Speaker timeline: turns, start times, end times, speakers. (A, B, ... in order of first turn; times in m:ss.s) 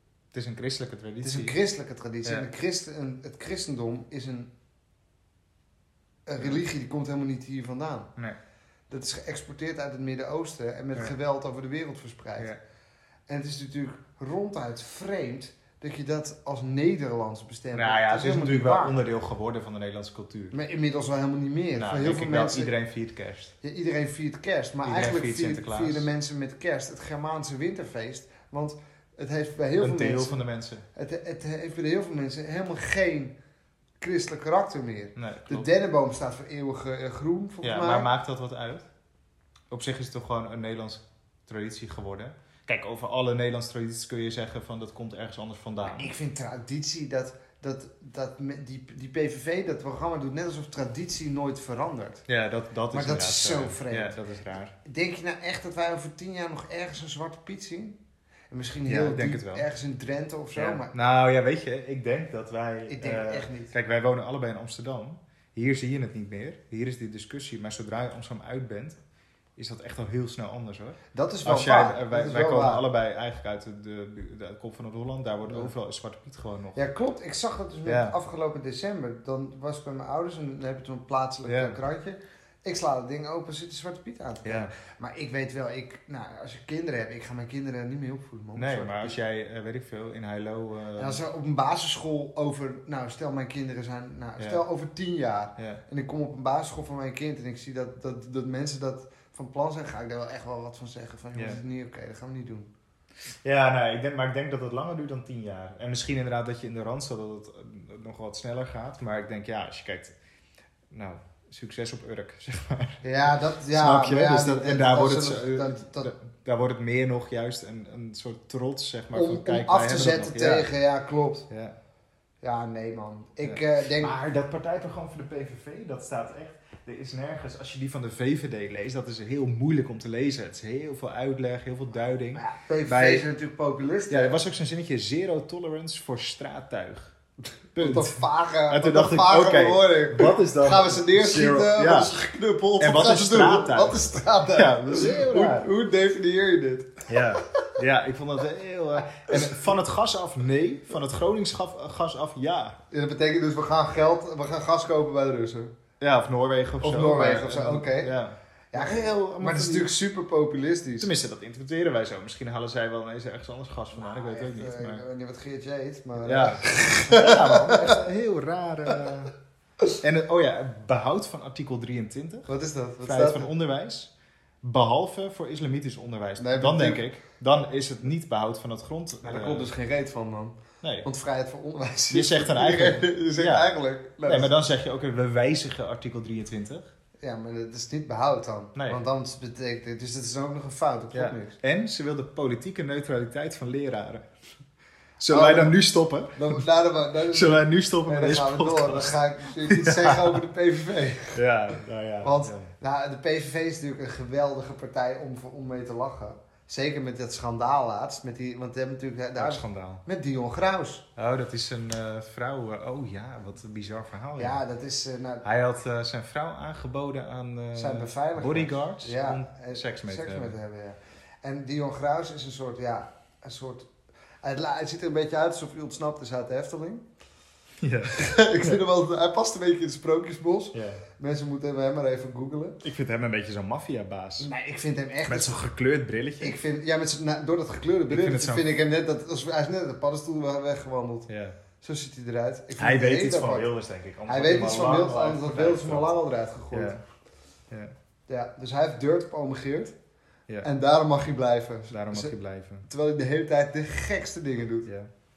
0:00.3-0:01.6 A
0:01.2-0:04.5 B
0:06.2-0:08.1 B
0:08.9-0:12.6 B
0:13.3-0:19.0 B
0:17.7-0:20.6 A
0:20.5-0:22.7 B
0:21.7-0:23.5 A
0:23.6-0:30.4 B
0:24.8-0:26.1 A
0:29.8-0:30.8 A
0:30.9-0:33.3 B
0:34.0-0:38.1 B
0:35.2-0:35.7 A
0:37.6-0:38.9 A
0:39.7-0:46.1 A
0:45.9-0:52.2 B
0:52.2-0:54.7 A
0:52.9-0:54.2 B
0:54.8-0:58.0 B
0:58.5-1:00.9 B
0:58.8-0:59.7 A
1:00.5-1:09.0 A
1:02.9-1:03.7 B
1:09.6-1:16.8 A
1:11.1-1:12.8 B
1:15.4-1:15.7 B
1:16.7-1:29.2 B
1:17.8-1:18.1 A
1:21.4-1:21.8 A
1:24.4-1:24.7 A
1:28.5-1:31.2 A
1:31.0-1:42.7 B
1:35.6-1:35.8 A
1:41.3-1:41.6 A
1:43.4-1:50.1 A
1:50.9-1:53.0 A
1:53.0-1:56.1 B
1:53.7-2:00.7 A
1:59.1-2:01.5 B
2:01.5-2:01.8 A
2:02.4-2:04.1 B
2:03.4-2:13.2 A
2:12.3-2:14.4 B
2:14.1-2:17.1 A
2:17.7-2:22.1 A
2:17.8-2:27.7 B
2:22.8-2:25.7 A
2:27.1-2:32.8 A
2:29.1-2:29.7 B
2:32.9-2:35.7 B
2:36.0-2:39.9 A
2:36.8-2:38.2 B
2:38.7-2:41.1 B
2:41.0-2:45.0 A
2:43.9-2:48.0 B
2:46.2-2:49.3 A
2:50.0-2:52.5 A
2:52.5-2:53.5 B
2:53.0-2:54.1 A
2:54.6-2:59.7 A
2:56.4-2:57.0 B
2:59.2-3:04.5 B
3:00.8-3:01.1 A
3:02.1-3:03.7 A
3:04.2-3:06.9 A
3:07.2-3:11.6 B
3:08.7-3:09.0 A
3:11.1-3:14.3 A
3:15.2-3:16.6 A
3:15.3-3:21.4 B
3:17.3-3:20.4 A
3:21.3-3:22.7 A
3:22.2-3:31.1 B
3:29.4-3:30.0 A
3:31.2-3:34.6 A
3:34.4-3:35.4 B
3:35.4-3:40.6 A
3:37.7-3:43.9 B
3:44.4-3:47.0 B
3:47.8-3:48.8 A
3:48.1-3:52.8 B
3:50.7-3:51.0 A
3:52.8-3:54.5 A
3:54.4-3:55.6 B
3:55.3-3:56.6 A
3:56.4-4:01.3 B
3:58.1-3:58.7 A
4:01.3-4:01.6 A
4:01.8-4:03.7 B
4:02.8-4:06.1 A
4:04.3-4:07.0 B
4:06.7-4:07.0 A
4:08.3-4:09.9 B
4:10.6-4:14.9 B
4:11.9-4:12.9 A